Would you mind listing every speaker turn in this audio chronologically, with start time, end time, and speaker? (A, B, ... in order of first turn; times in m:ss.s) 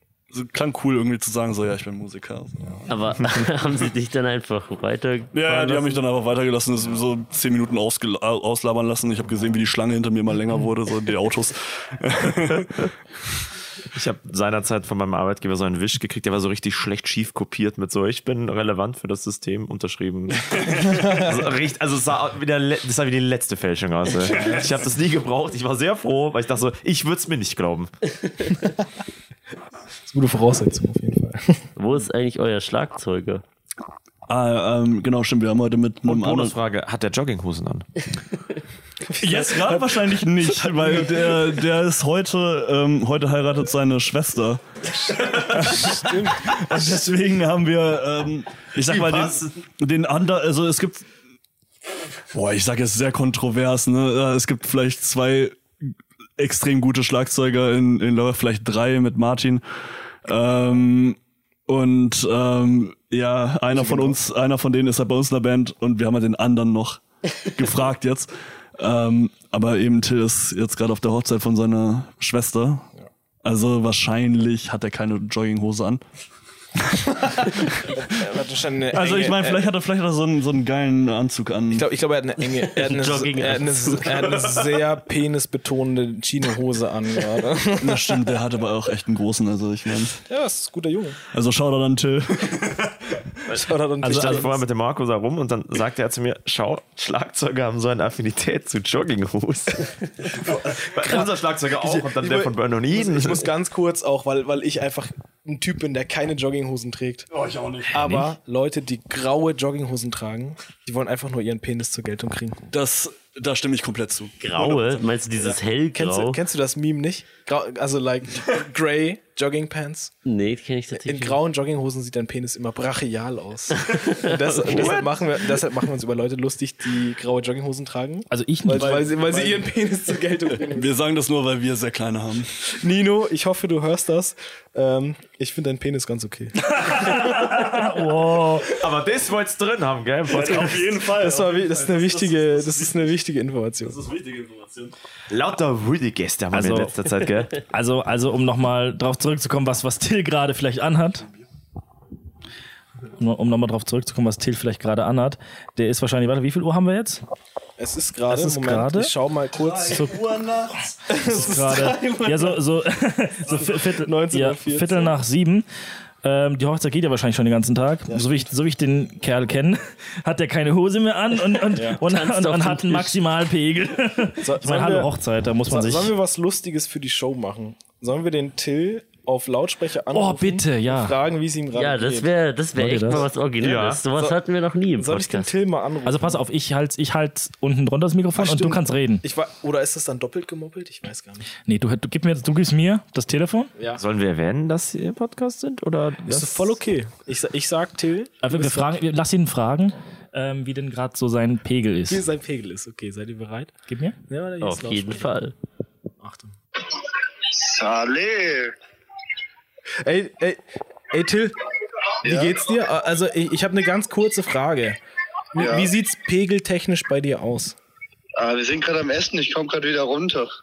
0:00.3-0:02.8 A
0:02.9-0:06.0 B
0:05.3-0:12.9 A
0:13.9-0:27.9 C
0:20.8-0:21.3 D
0:30.1-0:31.6 D
0:31.8-0:33.4 B
0:34.3-0:36.6 A
0:36.0-0:37.9 C
0:39.0-0:41.4 D
0:39.2-0:44.6 A
0:45.2-0:51.1 A
0:45.2-0:46.8 D
0:48.8-0:49.4 C
0:52.3-0:55.6 A
0:56.4-0:59.6 A
1:00.2-1:12.9 A
1:03.7-1:04.2 D
1:13.4-1:16.0 A
1:16.8-1:18.0 A
1:17.2-1:19.7 D
1:18.9-1:21.9 A
1:21.7-1:28.4 D
1:22.7-1:24.4 B
1:23.0-1:24.4 C
1:27.8-1:30.2 A
1:30.2-1:31.2 D
1:31.3-1:33.2 A
1:33.5-1:34.6 D
1:33.5-1:43.5 C
1:34.0-1:34.5 E
1:40.4-1:40.9 A
1:41.0-1:47.3 D
1:47.3-1:48.2 A
1:47.9-1:52.6 D
1:52.7-1:55.0 A
1:54.4-1:56.4 B
1:55.5-2:00.1 D
2:00.2-2:01.4 B
2:00.9-2:10.9 D
2:03.9-2:04.3 B
2:08.3-2:09.1 E
2:08.7-2:09.6 A
2:10.6-2:12.5 A
2:12.7-2:17.3 D
2:16.7-2:18.8 E
2:18.7-2:20.9 C
2:20.3-2:23.0 A
2:20.3-2:24.0 D
2:23.8-2:24.9 A
2:25.3-2:27.6 C
2:26.5-2:26.9 E
2:27.7-2:31.2 E
2:33.1-2:37.2 E
2:37.8-2:40.1 D
2:38.3-2:39.1 E
2:39.6-2:42.3 A
2:39.9-2:40.1 E
2:41.1-2:42.2 D
2:41.2-2:45.6 E
2:43.5-2:43.7 A
2:43.8-2:45.2 D
2:46.2-2:56.1 E
2:48.1-2:48.5 D
2:51.7-2:52.7 D
2:54.4-2:55.1 D
2:55.7-3:02.3 D
3:00.1-3:01.2 E
3:01.7-3:05.5 B
3:02.8-3:03.3 E
3:03.6-3:04.0 C
3:04.1-3:04.4 D
3:04.9-3:06.4 D
3:06.0-3:09.2 E
3:08.3-3:11.5 D
3:11.6-3:13.7 E
3:13.8-3:14.0 D
3:14.0-3:16.7 C
3:16.2-3:19.0 D
3:18.4-3:22.2 E
3:22.1-3:23.7 D
3:23.9-3:24.2 E
3:24.3-3:25.4 D
3:24.6-3:25.6 B
3:26.2-3:26.5 D
3:27.4-3:28.7 F
3:30.0-3:31.6 D
3:32.2-3:35.0 D
3:32.2-3:32.6 F
3:35.5-3:37.8 D
3:35.6-3:35.9 F
3:38.4-3:40.5 F